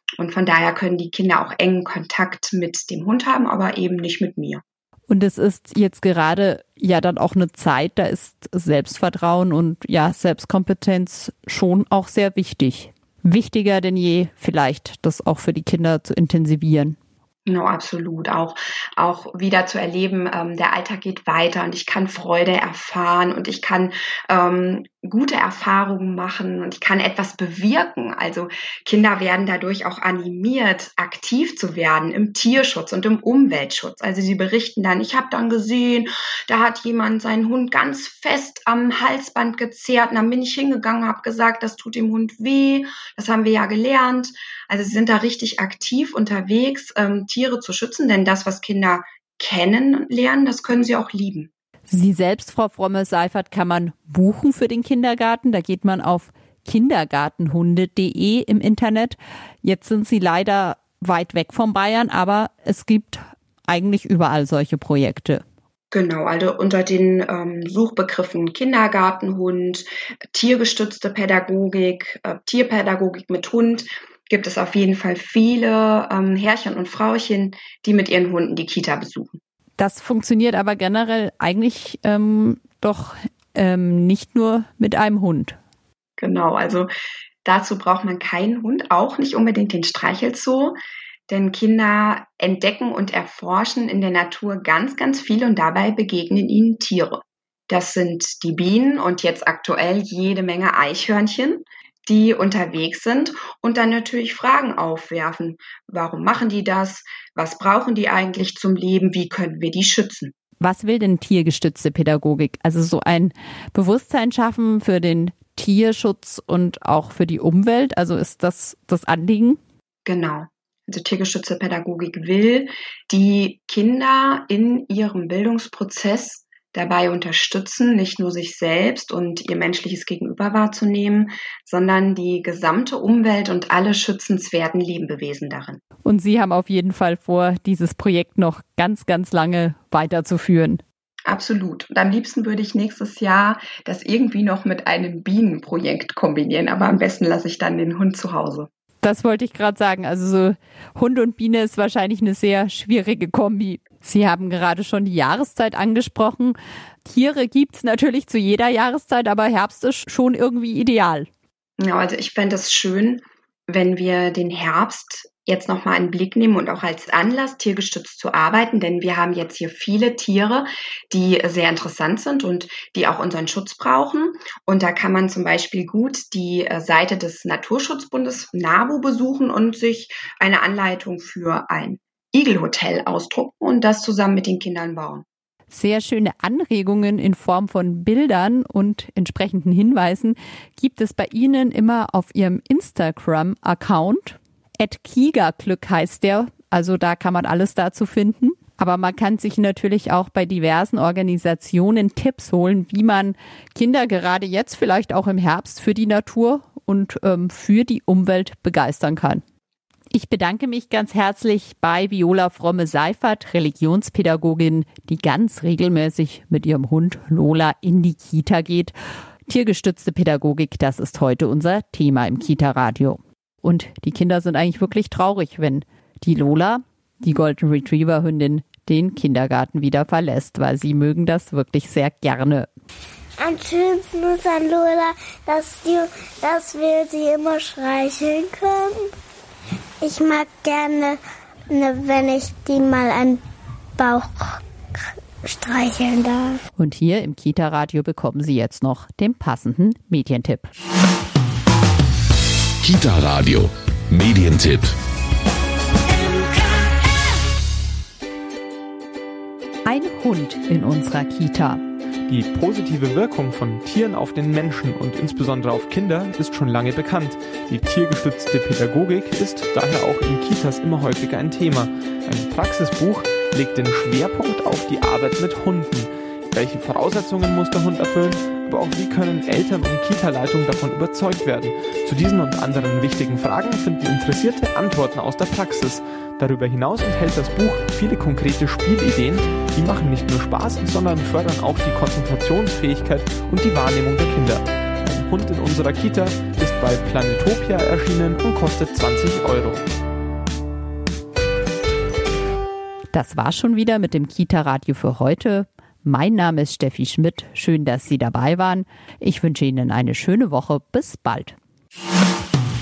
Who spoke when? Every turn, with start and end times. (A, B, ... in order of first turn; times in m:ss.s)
0:00.2-0:04.6 A
0:05.1-0:17.0 B
0:17.5-0:51.5 A
0:51.9-1:05.4 B
1:05.9-1:19.4 A
1:19.8-1:25.6 B
1:26.2-1:26.9 A
1:27.4-1:30.8 A
1:31.3-1:50.3 A
1:50.6-1:59.6 B
2:00.0-2:15.8 A
2:16.0-2:20.8 B
2:21.3-2:28.7 A
2:29.0-2:41.3 B
2:41.8-3:05.2 A
3:05.7-3:29.4 B
3:30.1-3:39.0 B
3:39.5-3:52.7 B
3:53.4-3:59.1 C
4:00.0-4:01.2 C
4:01.7-4:03.4 C
4:04.0-4:04.6 C
4:05.4-4:06.6 C
4:06.8-4:10.7 B
4:12.8-4:14.9 D
4:19.8-4:21.8 B
4:22.3-4:59.8 E
5:03.1-5:11.6 B